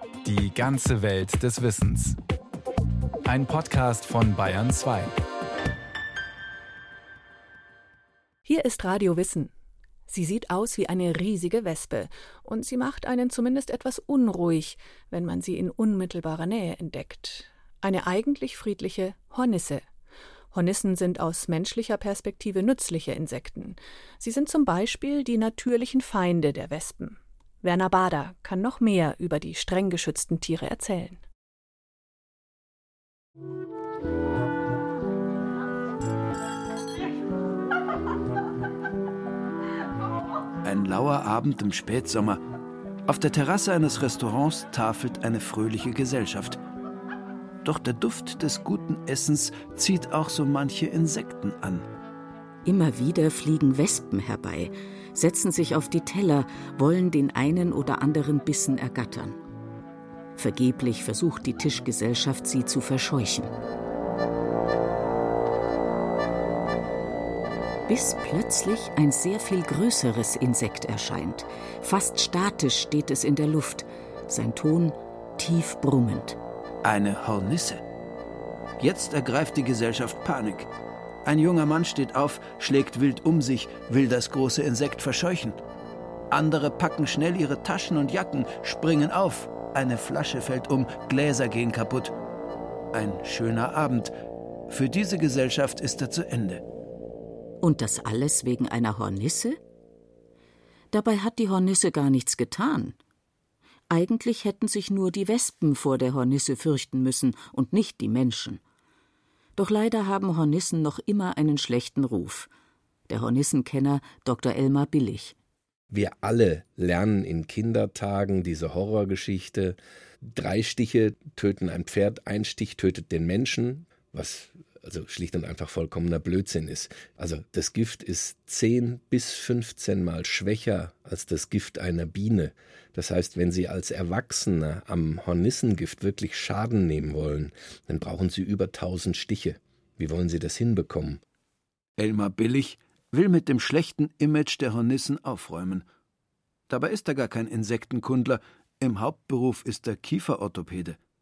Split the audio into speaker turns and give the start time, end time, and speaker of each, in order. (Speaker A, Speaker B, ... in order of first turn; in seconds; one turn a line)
Speaker A: 0.2-2.2
Speaker A: 3.2-5.1
Speaker B: 8.4-9.5
Speaker B: 10.1-19.9
Speaker B: 20.5-31.2
Speaker C: 40.6-42.4
Speaker C: 43.1-46.6
Speaker C: 47.6-51.9
Speaker D: 52.6-59.4
Speaker D: 60.4-63.5
Speaker D: 67.9-76.4
Speaker C: 76.8-77.8
Speaker C: 78.8-80.7
Speaker C: 81.2-85.6
Speaker C: 86.3-92.1
Speaker C: 92.9-94.1
Speaker C: 94.7-96.6
Speaker D: 97.6-99.6
Speaker D: 100.9-103.0
Speaker D: 103.9-108.6
Speaker D: 109.5-112.5
Speaker D: 113.1-115.3
Speaker E: 115.9-141.2
Speaker C: 142.0-145.8
Speaker C: 146.7-151.0